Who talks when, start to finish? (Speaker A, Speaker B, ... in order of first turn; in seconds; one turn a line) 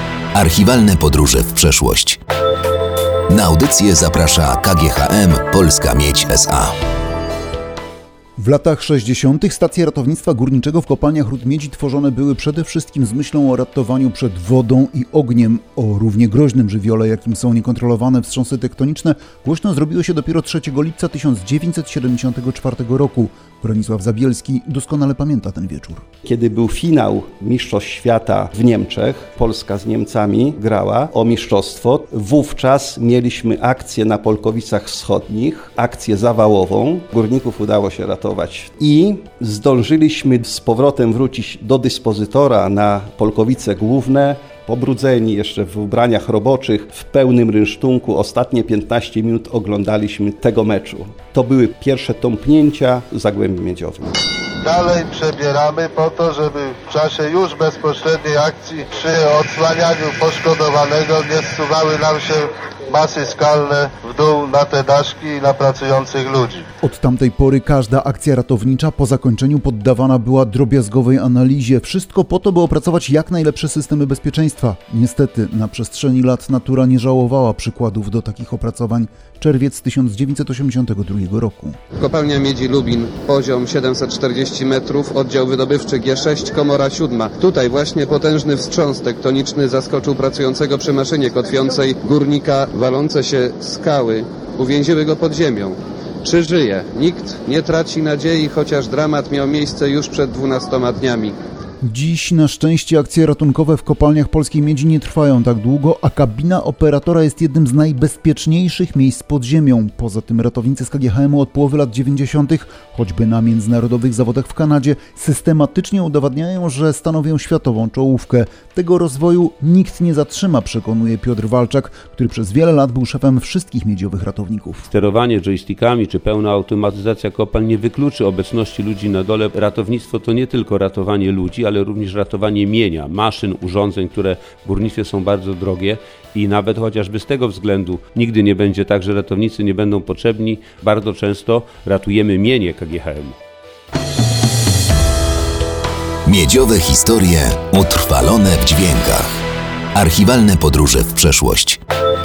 Speaker A: 0.3-2.2
Speaker A: 3.3-6.8
Speaker B: 8.4-26.0
Speaker C: 26.2-54.2
Speaker D: 54.6-66.7
Speaker B: 66.8-81.8
Speaker E: 82.0-101.3
Speaker B: 101.8-124.9
Speaker F: 124.9-143.4
Speaker A: 146.2-149.4
Speaker A: 149.9-151.8